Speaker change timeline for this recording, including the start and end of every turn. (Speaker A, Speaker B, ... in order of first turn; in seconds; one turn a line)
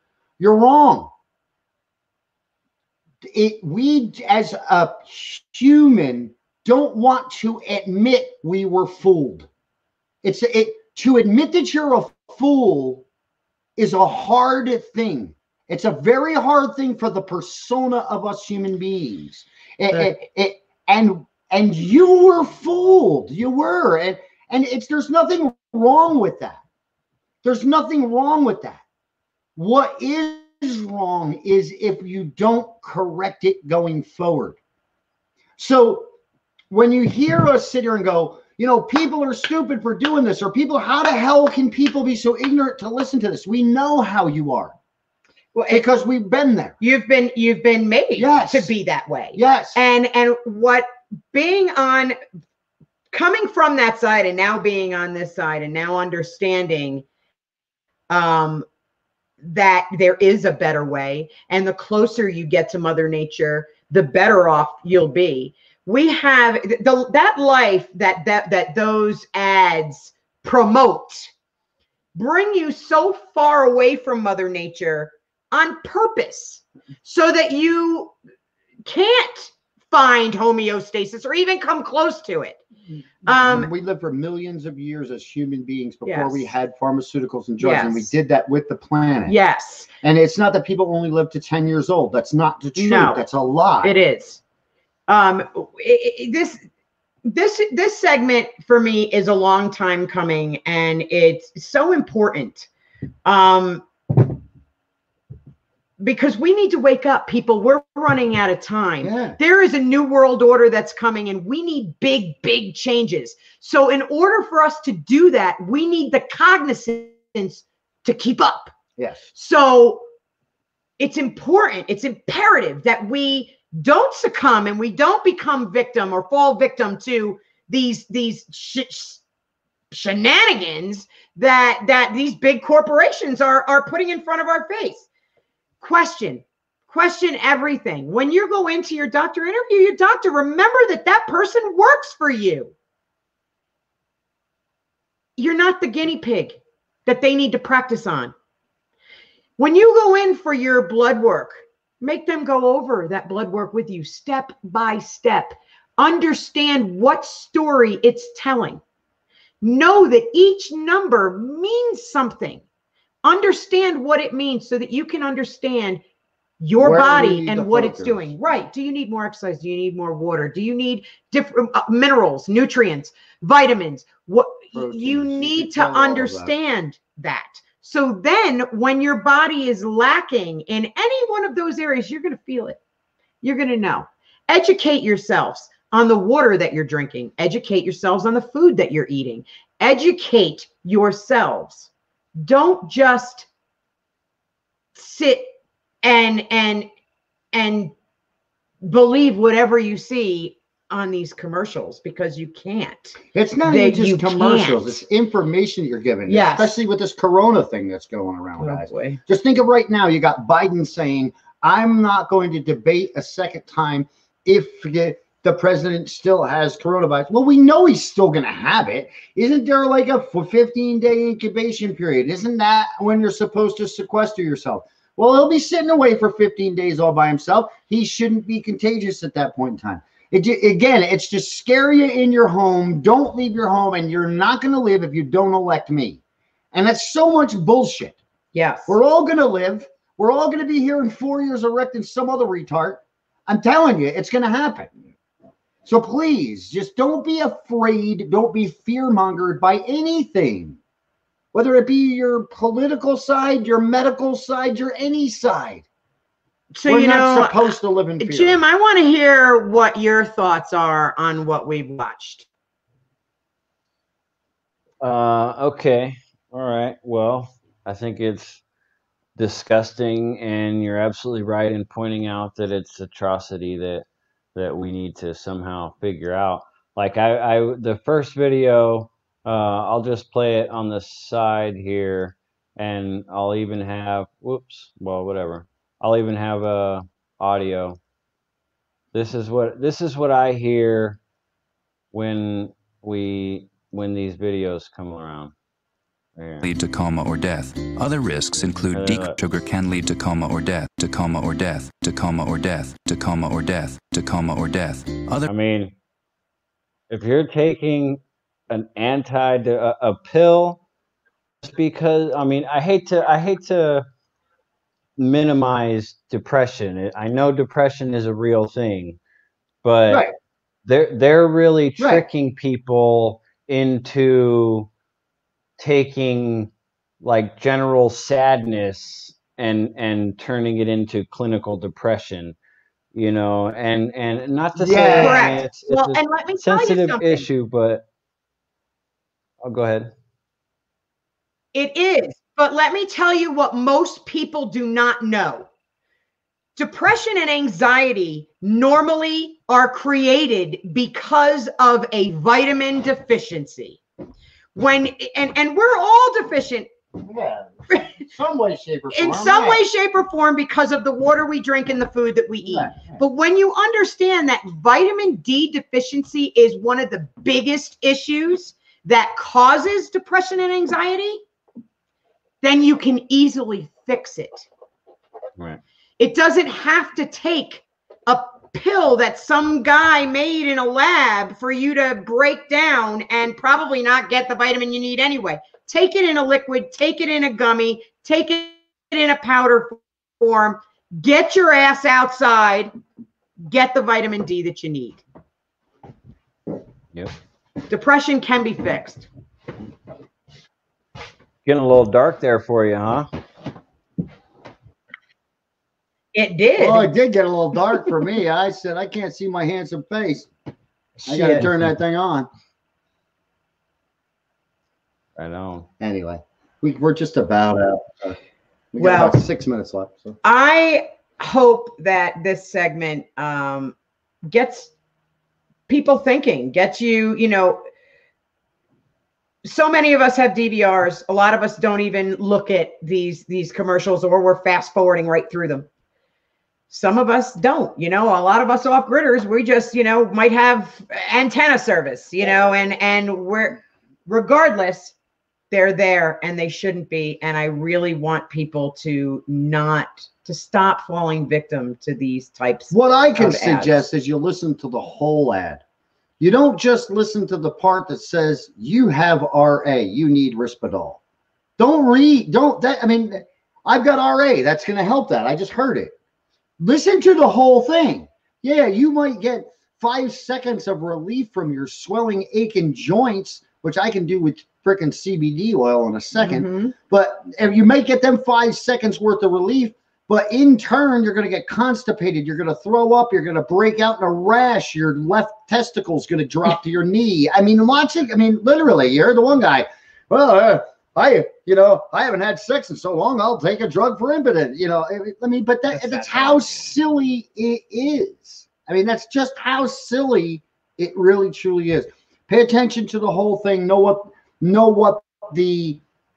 Speaker A: 0.4-1.1
Speaker A: 3.2-9.5
Speaker A: 10.2-13.0
Speaker A: 13.8-26.6
Speaker A: 27.4-28.8
Speaker A: 29.6-34.6
Speaker A: 35.6-36.1
Speaker A: 36.7-44.8
Speaker B: 45.5-45.9
Speaker A: 45.7-46.8
Speaker B: 46.8-52.2
Speaker A: 48.2-48.7
Speaker A: 49.3-49.8
Speaker B: 53.1-57.0
Speaker B: 58.1-58.7
Speaker B: 59.4-71.3
Speaker B: 72.2-78.1
Speaker B: 78.9-82.6
Speaker A: 83.2-89.3
Speaker B: 83.3-83.7
Speaker B: 86.1-86.5
Speaker B: 87.6-88.1
Speaker B: 89.3-89.9
Speaker A: 90.0-94.0
Speaker B: 92.8-93.2
Speaker B: 93.8-94.4
Speaker B: 95.1-96.6
Speaker B: 97.2-102.7
Speaker B: 103.2-103.8
Speaker B: 106.0-118.7
Speaker A: 109.0-109.4
Speaker A: 119.0-119.3
Speaker B: 119.3-120.0
Speaker B: 121.0-129.2
Speaker B: 129.9-135.1
Speaker B: 135.8-142.7
Speaker B: 145.4-148.3
Speaker B: 149.6-158.8
Speaker B: 159.6-162.6
Speaker B: 163.2-166.0
Speaker B: 166.6-182.8
Speaker A: 166.8-168.3
Speaker A: 174.7-176.5
Speaker B: 183.4-193.5
Speaker B: 194.9-196.9
Speaker B: 197.5-197.9
Speaker B: 198.8-205.0
Speaker A: 203.3-236.2
Speaker B: 206.3-206.8
Speaker B: 208.6-209.2
Speaker A: 236.7-238.2
Speaker B: 238.5-239.0
Speaker A: 238.9-245.1
Speaker A: 245.8-250.8
Speaker A: 251.5-255.8
Speaker B: 256.7-262.5
Speaker A: 256.9-258.6
Speaker C: 265.0-268.6
Speaker C: 269.4-288.0
Speaker C: 289.1-291.2
Speaker C: 292.1-295.5
Speaker C: 296.4-296.7
Speaker D: 296.6-305.5
Speaker C: 298.9-299.4
Speaker C: 305.5-305.9
Speaker C: 307.1-310.8
Speaker C: 311.6-314.1
Speaker C: 315.2-319.2
Speaker C: 319.8-320.3
Speaker C: 320.9-324.9
Speaker A: 322.0-322.2
Speaker C: 325.8-326.7
Speaker C: 327.2-332.6
Speaker C: 333.1-338.0
Speaker A: 334.8-335.5
Speaker B: 335.1-337.5
Speaker C: 339.6-340.1
Speaker B: 341.7-345.7
Speaker B: 346.8-354.0
Speaker B: 354.8-356.9
Speaker A: 357.2-359.8
Speaker B: 359.1-371.4
Speaker A: 362.6-363.2
Speaker B: 372.6-374.7
Speaker B: 376.2-392.9
Speaker B: 393.7-395.2
Speaker B: 397.9-399.3
Speaker C: 401.6-403.3
Speaker B: 406.3-407.1
Speaker A: 406.8-410.5
Speaker B: 411.2-411.7
Speaker A: 411.3-412.5
Speaker C: 415.4-415.9
Speaker A: 416.0-418.4
Speaker A: 418.9-420.4
Speaker B: 419.0-419.4
Speaker B: 420.4-424.0
Speaker B: 424.5-424.9
Speaker B: 425.9-427.8
Speaker B: 429.6-435.9
Speaker B: 436.9-445.1
Speaker B: 445.7-454.0
Speaker A: 452.9-455.8
Speaker A: 456.4-461.2
Speaker A: 461.8-466.1
Speaker A: 466.8-506.0
Speaker B: 476.4-476.9
Speaker C: 496.0-496.7